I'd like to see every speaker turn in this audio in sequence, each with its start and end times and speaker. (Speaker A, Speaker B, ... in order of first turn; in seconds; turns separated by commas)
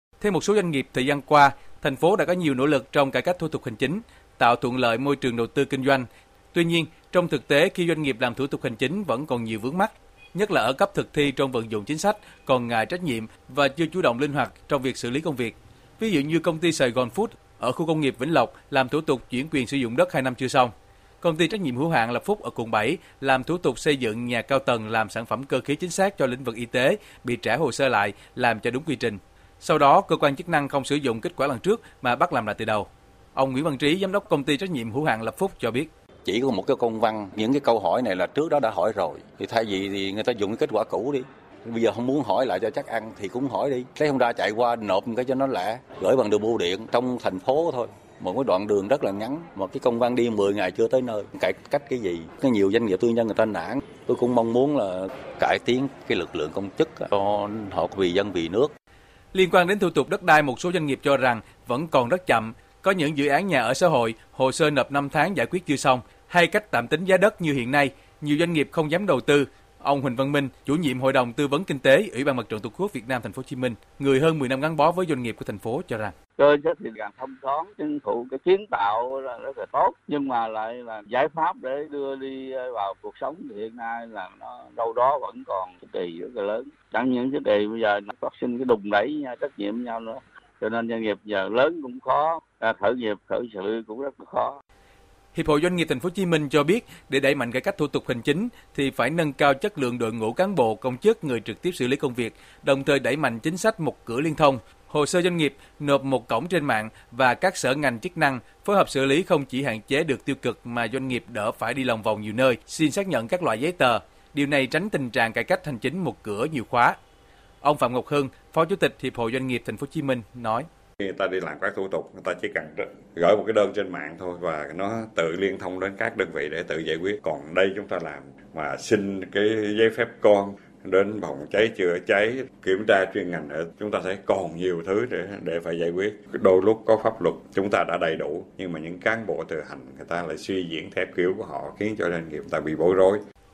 Speaker A: 0.2-35.9, Speaker B: 36.2-58.7, Speaker A: 59.3-76.1, Speaker C: 76.4-94.6, Speaker A: 95.3-117.0, Speaker A: 117.6-120.7, Speaker D: 121.0-143.2